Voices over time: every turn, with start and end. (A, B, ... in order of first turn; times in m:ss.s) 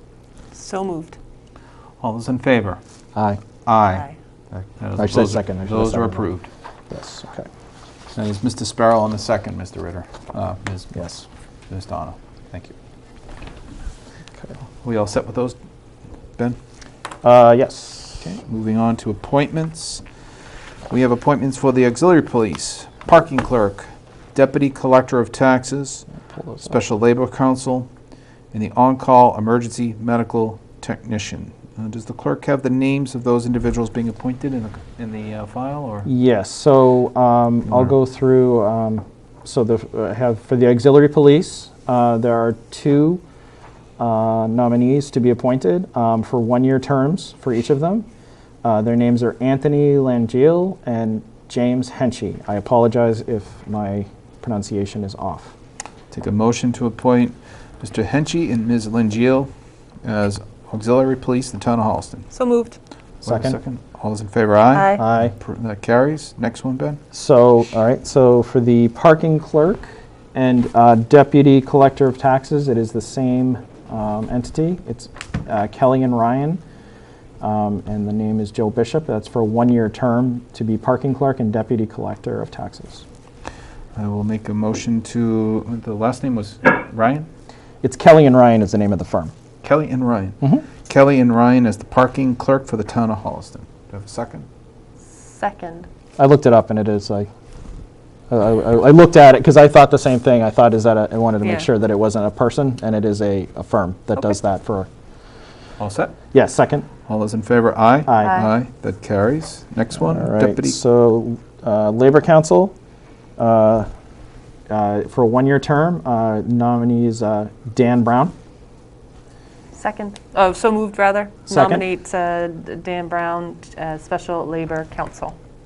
0:00.5-0:01.2 A
0:02.0-0:02.8 B
0:03.2-0:03.4 C
0:03.6-0:06.5 B
0:05.0-0:06.3 C
0:06.9-0:07.5 C
0:08.1-0:11.2 B
0:11.0-0:11.2 C
0:11.7-0:12.8 B
0:14.8-0:15.6 B
0:17.2-0:18.3 C
0:18.2-0:20.0 B
0:20.9-0:26.1 B
0:26.4-0:26.6 C
0:26.6-0:27.9 B
0:28.5-0:36.1 B
0:36.1-0:43.2 C
0:37.7-0:37.9 B
0:44.0-0:48.1 C
0:48.6-0:55.6 C
0:56.1-0:59.5 B
1:00.0-1:02.3 B
1:02.3-1:02.8 A
1:03.2-1:07.0 B
1:03.2-1:03.6 C
1:04.7-1:05.0 A
1:05.0-1:05.3 C
1:07.1-1:16.6 C
1:17.4-1:23.1 C
1:24.0-1:27.3 B
1:27.8-1:29.3 C
1:29.6-1:34.5 B
1:35.1-1:35.9 A
1:36.2-1:37.3 C
1:38.3-1:44.9 C
1:41.4-1:41.7 A
1:45.8-1:46.2 B
1:46.3-1:46.9 C
1:47.1-1:50.8 B
1:48.1-1:48.5 C
1:48.2-1:48.5 A
1:50.0-1:52.7 C
1:53.4-1:53.9 C
1:54.7-1:58.3 C
1:59.7-2:05.4 A
2:01.5-2:01.8 C